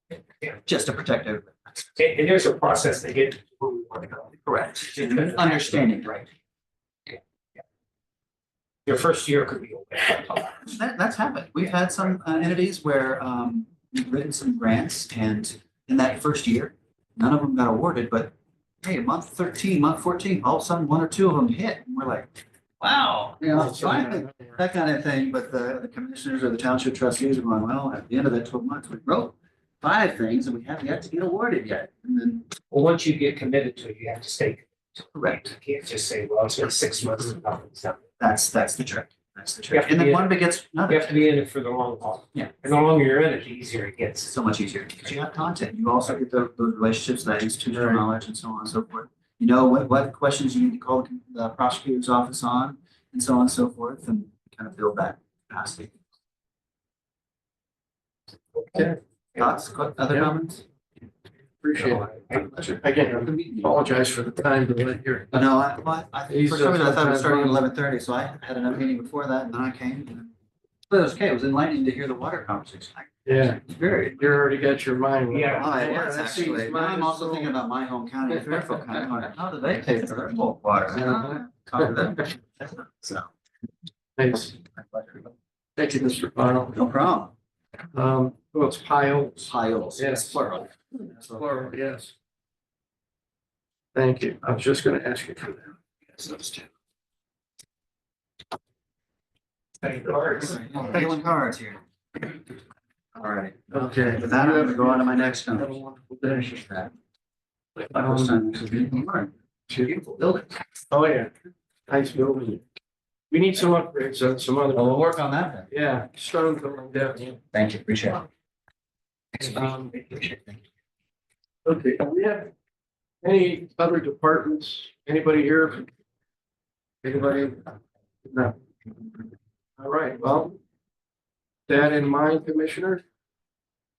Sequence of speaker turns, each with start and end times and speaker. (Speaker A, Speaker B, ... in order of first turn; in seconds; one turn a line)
Speaker A: 0.6-1.9
Speaker B: 2.0-6.2
Speaker A: 4.4-6.2
Speaker B: 8.8-10.7
Speaker A: 10.6-32.5
Speaker C: 23.5-24.6
Speaker B: 32.7-38.0
Speaker A: 38.2-41.2
Speaker B: 39.7-44.3
Speaker A: 44.3-55.9
Speaker C: 47.7-48.0
Speaker C: 58.7-59.0
Speaker A: 59.4-60.6
Speaker C: 61.6-62.0
Speaker B: 61.7-62.7
Speaker A: 62.4-63.8
Speaker C: 62.6-65.5
Speaker A: 65.3-70.3
Speaker C: 66.3-67.6
Speaker A: 70.9-74.4
Speaker C: 73.2-73.6
Speaker C: 74.2-77.5
Speaker B: 75.3-75.8
Speaker A: 75.5-83.3
Speaker C: 78.3-79.1
Speaker C: 79.8-80.2
Speaker C: 80.9-81.9
Speaker C: 84.2-84.6
Speaker A: 84.7-85.3
Speaker C: 85.8-86.8
Speaker A: 86.7-87.3
Speaker C: 87.9-90.4
Speaker A: 89.5-91.7
Speaker C: 91.3-92.1
Speaker C: 93.9-95.8
Speaker A: 96.2-96.7
Speaker B: 99.8-100.6
Speaker A: 100.4-101.8
Speaker A: 103.1-105.7
Speaker C: 103.7-106.8
Speaker A: 106.7-106.9
Speaker C: 107.8-108.3
Speaker A: 107.9-110.6
Speaker C: 110.9-111.3
Speaker C: 111.9-112.6
Speaker C: 113.3-115.0
Speaker A: 114.7-115.7
Speaker C: 115.7-117.4
Speaker A: 117.5-118.3
Speaker A: 119.3-120.6
Speaker C: 119.4-119.9
Speaker C: 121.6-122.5
Speaker C: 123.2-125.9
Speaker C: 127.0-127.7
Speaker C: 128.2-128.6
Speaker C: 129.8-130.6
Speaker C: 131.7-133.0